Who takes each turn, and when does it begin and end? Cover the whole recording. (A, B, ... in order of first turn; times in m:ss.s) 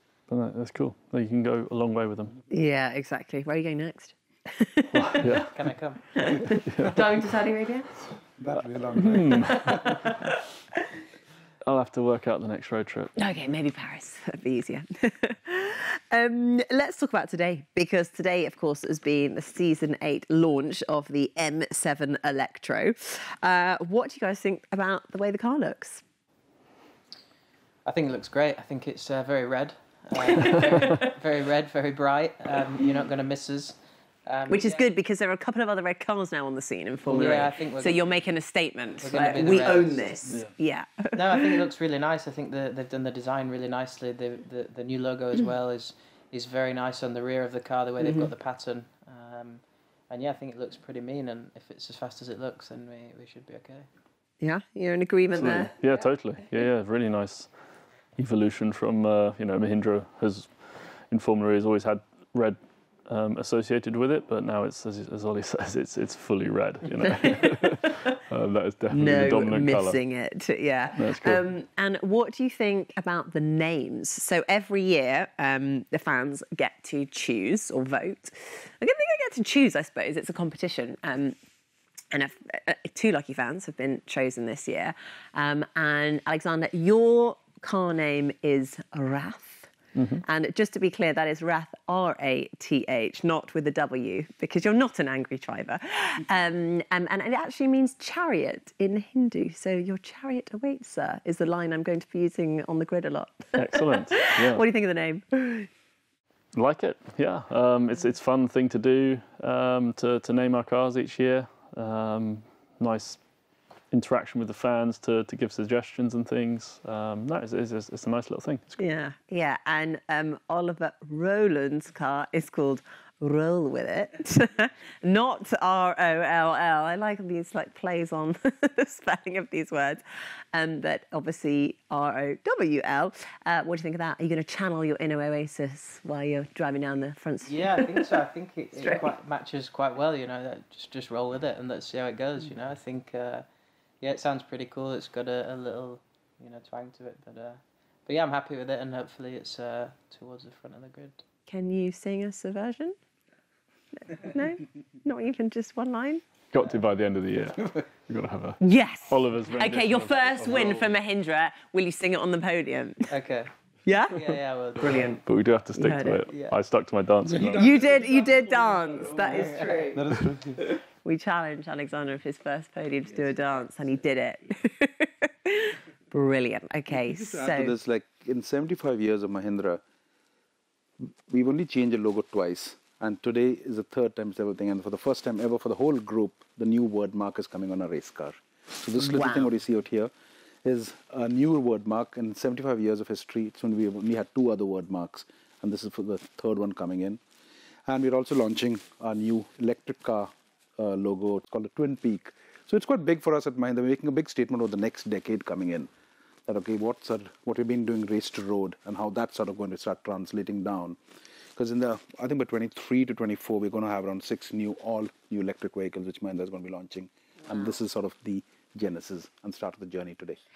0:00.3-0:02.4 A
0:02.5-0:05.2 B
0:04.9-0:05.5 A
0:05.5-0:06.0 C
0:06.1-0:08.0 B
0:06.6-0:07.0 A
0:08.4-0:10.0 D
0:09.0-0:10.1 A
0:09.2-0:10.4 B
0:11.6-0:13.1 A
0:13.2-0:26.0 B
0:27.8-0:34.8 C
0:30.2-0:31.1 B
0:34.5-0:41.6 B
0:37.0-0:38.0 C
0:39.0-0:40.2 C
0:41.1-0:53.9 C
0:48.0-0:48.3 B
0:54.4-0:55.7 B
0:55.3-0:57.5 A
0:58.2-1:10.0 A
1:07.0-1:08.1 B
1:08.9-1:21.4 B
1:10.9-1:11.4 A
1:22.1-1:45.7 B
1:29.9-1:30.2 A
1:43.6-1:44.6 A
1:46.5-1:53.2 A
1:53.9-1:58.7 A
1:58.8-2:18.2 B
2:17.4-2:23.4 C
2:18.8-2:19.1 B
2:24.0-2:31.2 C
2:31.5-2:33.0 B
2:34.1-2:36.2 B
2:36.5-2:40.9 A
2:38.6-2:43.0 B
2:43.1-2:43.5 C
2:43.8-2:44.4 B
2:44.1-2:45.2 C
2:44.8-2:47.8 A
2:45.8-2:46.2 B
2:46.3-2:46.6 C
2:47.2-2:48.0 D
2:47.5-2:50.0 B
2:49.2-2:50.0 C
2:49.9-2:50.8 D
2:51.0-2:57.7 B
2:56.9-2:59.8 D
3:01.3-3:10.1 D
3:09.0-3:09.5 B
3:10.6-3:17.2 D
3:17.9-3:25.9 D
3:26.5-3:31.0 D
3:31.6-3:40.4 D